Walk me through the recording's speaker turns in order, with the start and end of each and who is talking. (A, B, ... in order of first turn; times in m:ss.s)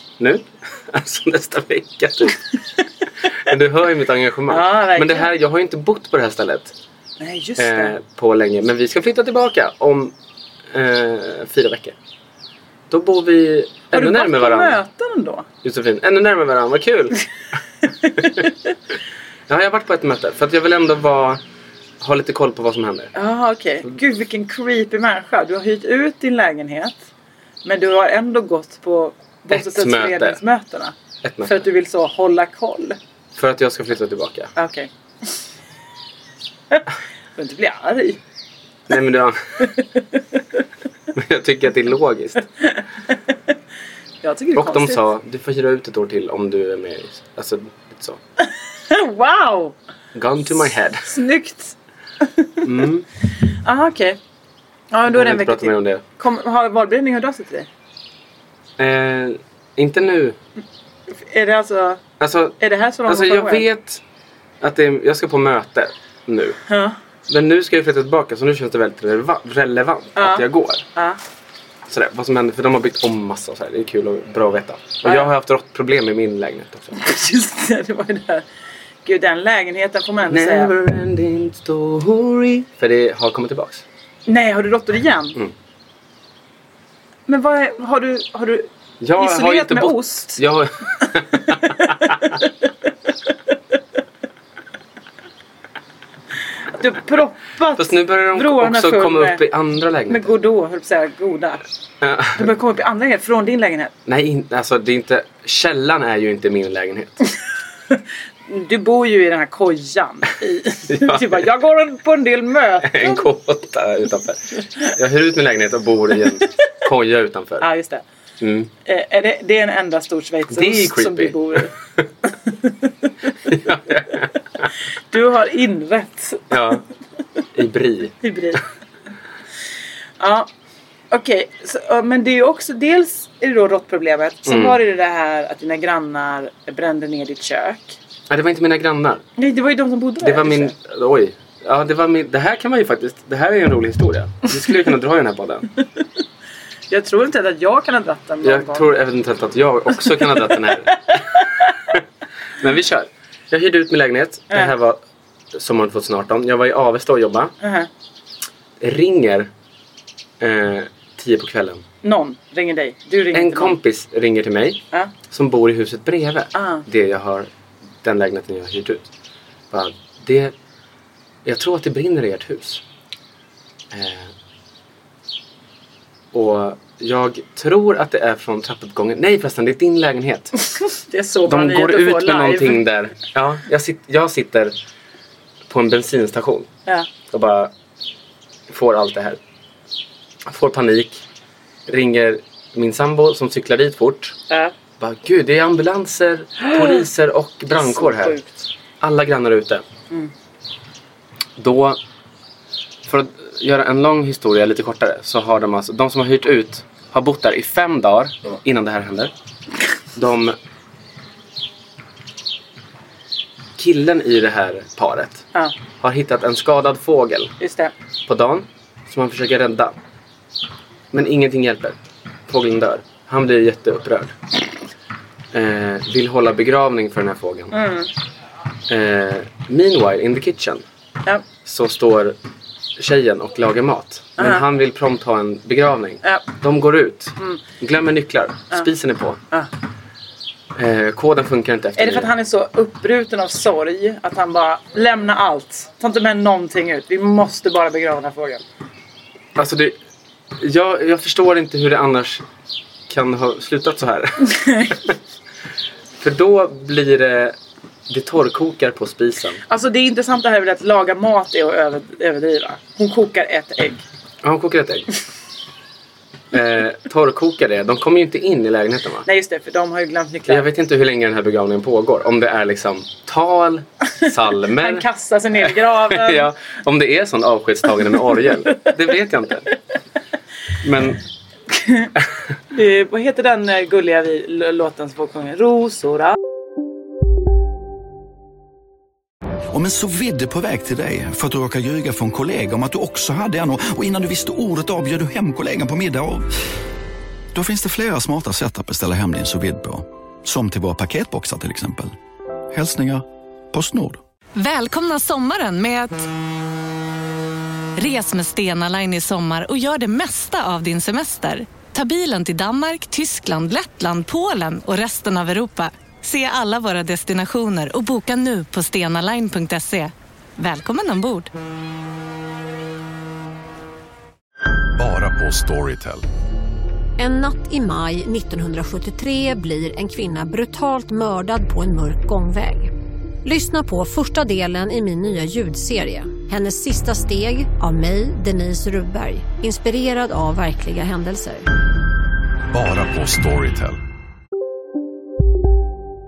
0:00.2-0:02.4 A
0:03.4-0:06.7 A
0:04.5-0:05.3 B
0:07.2-0:07.9 B
0:07.6-0:10.1 A
0:10.7-0:11.9 A
0:12.9-0:14.8 A
0:13.9-0:15.5 B
0:15.6-0:17.2 A
0:19.5-0:21.4 A
0:22.0-0:23.1 A
0:23.1-0:27.1 B
0:27.6-0:33.0 B
0:29.5-0:30.4 A
0:31.2-0:31.6 A
0:33.4-0:34.5 A
0:34.6-0:34.9 B
0:37.4-0:38.2 B
0:38.9-0:39.7 A
0:41.1-0:42.4 A
0:42.6-0:43.1 B
0:44.2-0:45.0 B
0:44.5-0:48.2 A
0:48.4-0:49.7 B
0:50.1-0:51.1 A
0:51.0-0:52.5 B
0:52.6-0:53.0 A
0:53.5-0:54.2 B
0:54.9-0:57.7 B
0:55.1-0:56.0 A
0:58.8-1:00.4 A
1:01.1-1:02.0 B
1:02.2-1:04.0 A
1:02.6-1:03.6 B
1:04.6-1:06.6 A
1:06.7-1:07.0 B
1:07.3-1:10.8 A
1:10.2-1:11.2 B
1:11.9-1:17.0 A
1:16.9-1:18.4 B
1:19.0-1:20.7 B
1:20.3-1:23.8 A
1:24.3-1:25.4 B
1:27.3-1:30.4 B
1:29.0-1:32.1 A
1:31.6-1:32.3 B
1:36.7-1:39.4 B
1:37.8-1:40.3 A
1:40.1-1:41.6 B
1:42.0-1:42.4 A
1:42.3-1:43.9 B
1:44.0-1:47.2 A
1:47.9-1:53.2 B
1:50.9-1:51.4 A
1:52.8-1:57.7 A
1:57.6-1:58.0 B
1:58.4-1:58.7 A
1:58.8-2:01.7 B
2:00.5-2:01.6 A
2:03.5-2:04.3 A
2:05.1-2:06.5 B
2:06.5-2:06.8 A
2:07.5-2:08.2 A
2:08.2-2:08.6 B
2:10.2-2:10.5 B
2:11.1-2:18.0 B
2:14.5-2:14.8 A
2:18.3-2:19.2 A
2:19.4-2:20.7 B
2:20.2-2:25.7 A
2:26.9-2:28.9 B
2:28.4-2:31.2 A
2:30.5-2:31.7 B
2:32.6-2:35.0 A
2:35.5-2:37.5 A
2:37.6-2:37.9 B
2:38.8-2:39.5 A
2:40.4-2:41.8 A
2:42.0-2:43.8 B
2:43.3-2:47.5 A
2:46.5-2:46.8 B
2:48.0-2:49.0 A
2:49.7-2:50.5 A
2:51.4-2:52.8 A
2:53.9-2:54.3 A
2:56.3-3:00.5 A
3:00.8-3:02.8 B
3:01.5-3:04.7 A
3:05.7-3:06.7 A
3:07.3-3:07.7 A
3:08.7-3:09.4 A
3:10.4-3:11.2 A
3:11.9-3:14.4 A
3:15.0-3:18.4 A
3:17.8-3:18.5 B
3:19.0-3:19.8 A
3:21.6-3:22.0 A
3:23.1-3:29.3 A
3:30.2-3:30.6 A
3:33.8-3:35.4 A
3:36.0-3:37.5 A
3:37.6-3:37.9 B
3:38.3-3:39.9 A
3:41.1-3:42.0 A
3:42.5-3:44.3 A
3:45.5-3:47.7 A
3:47.7-3:48.1 B
3:48.9-3:50.8 A
3:51.6-3:52.4 A
3:53.0-3:59.4 A
3:54.4-3:54.6 B
4:00.8-4:02.3 A
4:02.0-4:08.6 B
4:09.6-4:09.9 A
4:10.6-4:12.4 A
4:13.1-4:15.1 A
4:14.4-4:15.0 B
4:16.2-4:17.5 A
4:18.1-4:19.6 A
4:19.7-4:24.0 B
4:24.4-4:25.1 A
4:26.5-4:29.2 A
4:29.2-4:30.6 B
4:30.5-4:35.0 A
4:34.8-4:36.5 B
4:35.6-4:39.7 A
4:40.8-4:41.2 A
4:41.7-4:42.1 B
4:42.7-4:46.4 B
4:49.7-4:56.5 C
4:57.5-5:02.2 C
5:02.7-5:04.2 C
5:04.6-5:06.2 D
5:08.0-5:21.5 D
5:25.0-5:26.2 E
5:27.2-5:32.9 F
5:33.4-5:41.6 F
5:42.7-5:44.0 E